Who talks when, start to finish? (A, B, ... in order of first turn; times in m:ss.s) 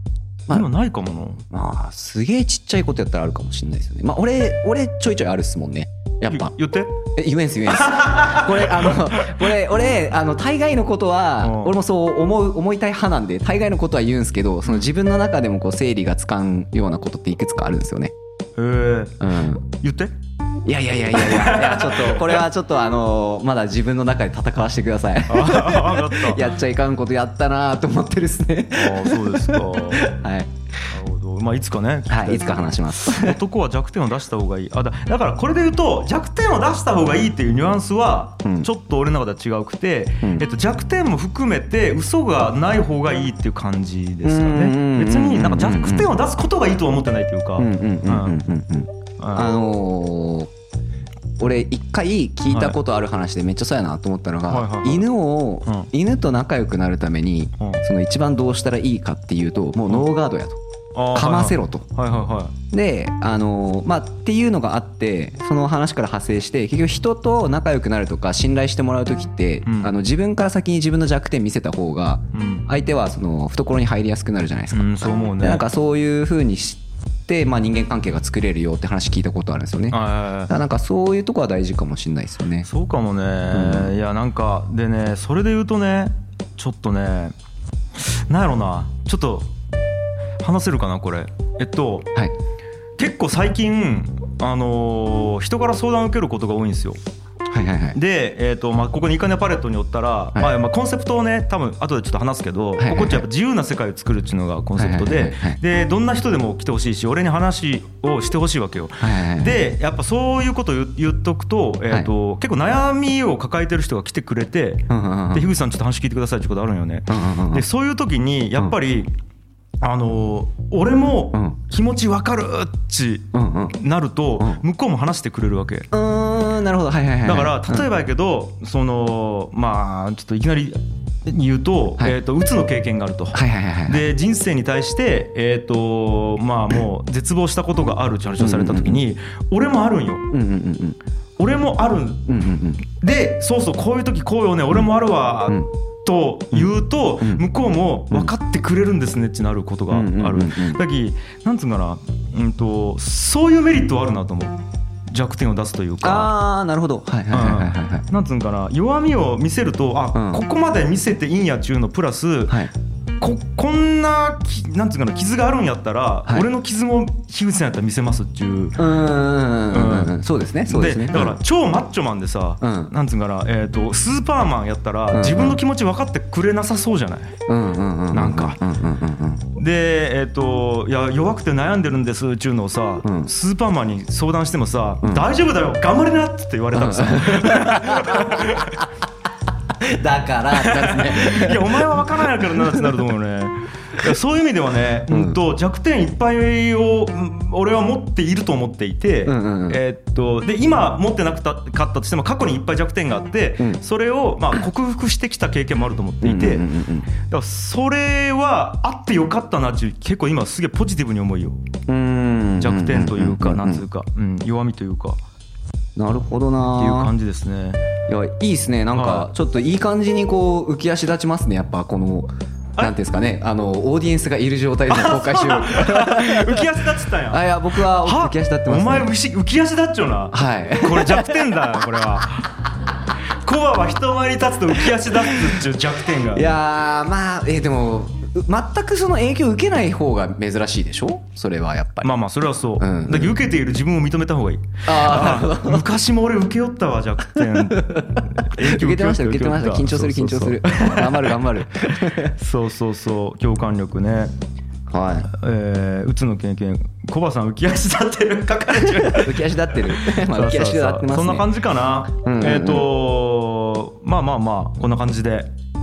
0:00.5-0:01.4 A
0:01.5-0:06.5 B
0:06.3-0:06.9 A
0:07.2-0:18.1 B
0:07.7-0:09.5 A
0:11.4-0:11.7 A
0:18.6-0:20.1 A
0:19.2-0:19.6 B
0:20.6-0:30.5 B
0:21.1-0:22.4 A
0:25.3-0:26.4 A
0:28.7-0:30.1 A
0:30.9-0:48.4 A
0:32.1-0:33.4 B
0:38.4-0:38.7 B
0:44.2-0:46.1 B
0:47.6-0:50.5 B
0:49.2-0:49.5 A
0:51.4-1:00.6 B
0:52.5-0:52.8 A
0:54.5-0:55.1 A
0:55.6-0:55.9 A
1:01.0-1:02.6 A
1:01.1-1:01.9 B
1:02.7-1:22.7 B
1:09.6-1:09.9 A
1:12.3-1:12.7 A
1:14.7-1:15.6 A
1:19.9-1:20.5 A
1:22.6-1:27.4 A
1:23.5-1:23.9 B
1:28.0-1:29.5 A
1:30.4-1:32.1 A
1:33.0-1:37.0 A
1:37.5-1:38.0 B
1:37.9-1:59.1 A
1:42.8-1:43.2 B
1:44.8-1:45.6 B
1:49.0-1:49.6 B
1:54.9-1:55.5 B
1:57.1-1:57.6 B
1:59.8-2:05.9 A
2:03.3-2:03.7 B
2:05.9-2:07.9 B
2:07.2-2:20.3 A
2:13.3-2:14.1 B
2:18.4-2:19.0 B
2:20.3-2:21.0 B
2:21.4-2:34.6 A
2:22.3-2:22.8 B
2:26.5-2:27.4 B
2:29.9-2:30.8 B
2:35.1-2:36.3 A
2:36.0-2:38.0 B
2:37.3-2:42.6 A
2:40.1-2:40.4 B
2:43.2-2:48.8 A
2:48.8-2:51.4 B
2:49.7-2:50.1 A
2:50.7-2:57.4 A
2:52.6-2:52.9 B
2:55.1-2:55.6 B
2:57.5-2:59.5 B
2:58.1-2:58.6 A
2:59.6-3:08.8 A
3:03.0-3:03.3 B
3:06.7-3:08.8 B
3:09.8-3:12.1 B
3:10.5-3:26.7 A
3:15.1-3:15.4 B
3:19.2-3:19.8 B
3:26.2-3:27.1 B
3:27.2-3:31.6 A
3:31.9-3:33.8 B
3:32.6-3:35.2 A
3:36.0-3:37.1 B
3:36.7-3:37.8 A
3:38.1-3:49.1 B
3:38.9-3:39.3 A
3:44.9-3:52.6 A
3:50.3-3:52.0 B
3:53.4-3:56.6 A
3:55.1-3:55.5 B
3:56.3-4:02.1 B
4:02.0-4:11.4 A
4:02.8-4:03.4 B
4:04.9-4:05.9 B
4:07.3-4:12.4 B
4:12.2-4:14.3 A
4:14.9-4:15.3 B
4:15.3-4:25.5 A
4:18.8-4:21.5 B
4:22.1-4:22.9 B